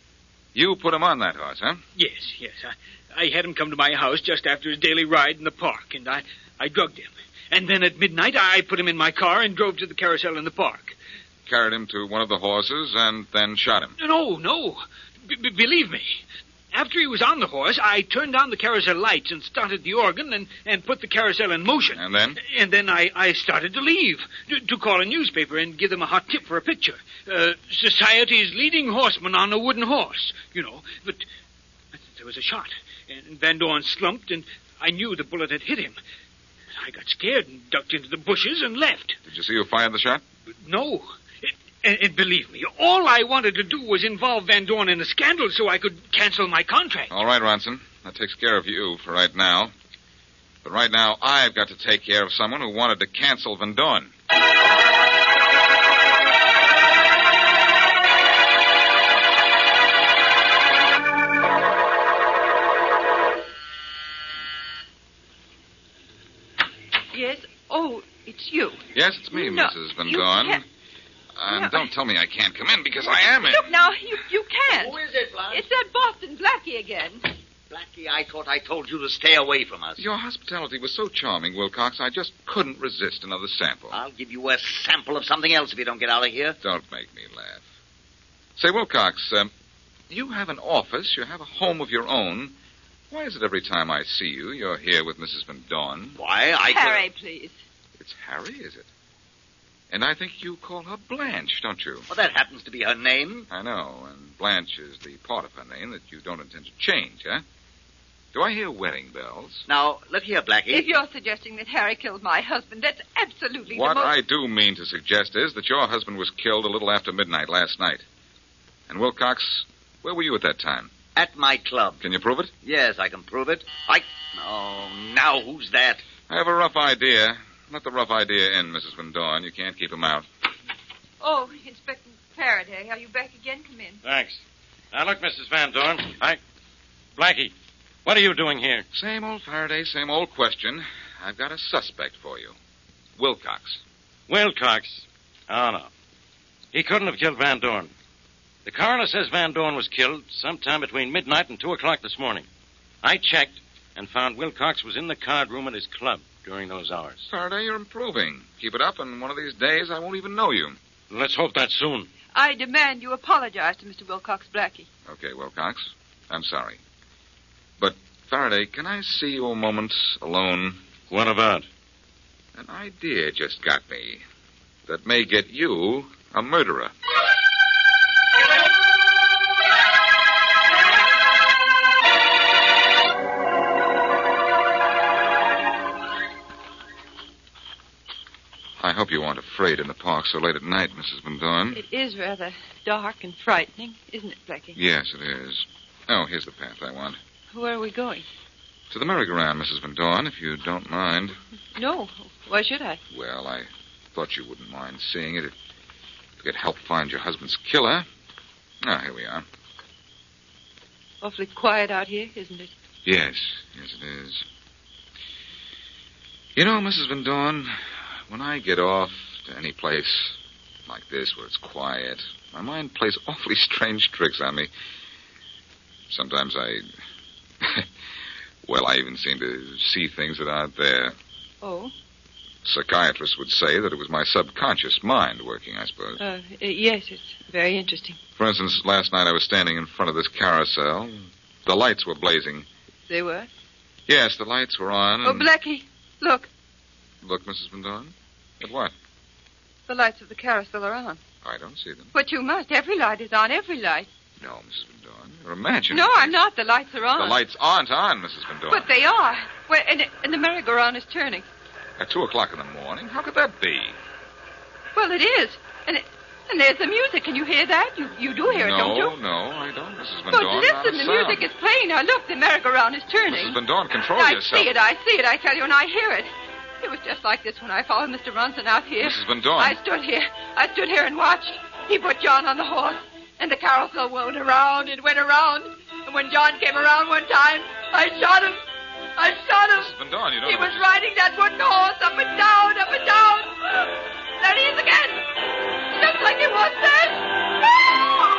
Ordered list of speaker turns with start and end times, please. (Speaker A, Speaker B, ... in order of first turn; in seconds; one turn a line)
Speaker A: 0.6-1.8
Speaker B: 2.0-11.0
Speaker A: 11.5-14.0
Speaker B: 14.0-31.2
Speaker A: 21.9-22.4
Speaker B: 31.9-36.0
Speaker B: 36.8-39.2
Speaker A: 39.3-40.2
Speaker B: 40.6-47.1
Speaker A: 47.1-49.7
Speaker A: 50.6-54.1
Speaker C: 67.1-68.8
Speaker A: 69.0-70.6
Speaker C: 69.3-70.6
Speaker A: 71.4-73.7
Speaker C: 71.5-71.9
Speaker C: 73.4-75.0
Speaker D: 74.7-75.7
Speaker C: 75.5-77.2
Speaker D: 77.7-80.0
Speaker A: 80.0-84.0
Speaker D: 83.9-86.6
Speaker A: 86.6-87.6
Speaker A: 88.6-89.5
Speaker A: 90.1-92.5
Speaker A: 93.1-96.2
Speaker D: 96.2-97.1
Speaker C: 96.6-97.6
Speaker A: 98.0-98.9
Speaker A: 99.9-102.1
Speaker D: 102.1-103.5
Speaker A: 103.5-107.4
Speaker A: 108.3-109.7
Speaker D: 109.7-111.0
Speaker C: 110.7-114.1
Speaker A: 113.7-118.0
Speaker A: 118.9-120.9
Speaker D: 121.2-122.0
Speaker A: 122.0-122.5
Speaker D: 122.6-126.0
Speaker A: 126.3-130.3
Speaker C: 131.2-134.0
Speaker E: 134.0-136.4
Speaker E: 137.2-137.5
Speaker E: 138.1-138.9
Speaker A: 138.9-142.6
Speaker A: 143.2-143.8
Speaker E: 144.3-145.9
Speaker E: 146.7-147.9
Speaker E: 148.7-152.5
Speaker E: 153.0-157.3
Speaker A: 157.3-160.8
Speaker E: 161.1-162.1
Speaker C: 162.3-164.9
Speaker A: 165.1-166.8
Speaker A: 167.8-170.8
Speaker E: 171.1-171.7
Speaker A: 172.6-174.2
Speaker A: 174.9-176.9
Speaker A: 188.8-191.8
Speaker C: 191.7-194.8
Speaker A: 194.8-197.2
Speaker C: 197.5-198.3
Speaker A: 198.9-201.4
Speaker C: 201.8-203.0
Speaker A: 203.1-205.6
Speaker A: 206.4-208.1
Speaker A: 208.8-209.4
Speaker C: 211.2-212.7
Speaker A: 213.1-214.4
Speaker A: 216.6-224.7
Speaker A: 226.1-226.9
Speaker A: 227.6-227.9
Speaker A: 228.7-231.2
Speaker C: 231.6-231.9
Speaker A: 232.7-236.2
Speaker C: 236.2-238.2
Speaker A: 238.4-242.7
Speaker C: 243.1-243.5
Speaker A: 244.1-245.5
Speaker C: 245.2-246.5
Speaker A: 247.2-248.9
Speaker C: 249.9-251.2
Speaker A: 251.4-252.1
Speaker C: 252.1-254.1
Speaker A: 254.4-256.4
Speaker C: 255.9-257.4
Speaker A: 257.2-258.9
Speaker C: 258.7-261.5
Speaker A: 262.0-264.0
Speaker C: 264.9-269.2
Speaker A: 268.5-271.5
Speaker C: 270.3-273.6
Speaker A: 273.3-274.7
Speaker C: 274.1-288.6
Speaker A: 279.0-279.8
Speaker C: 289.2-295.3
Speaker A: 289.8-290.9
Speaker C: 295.9-297.4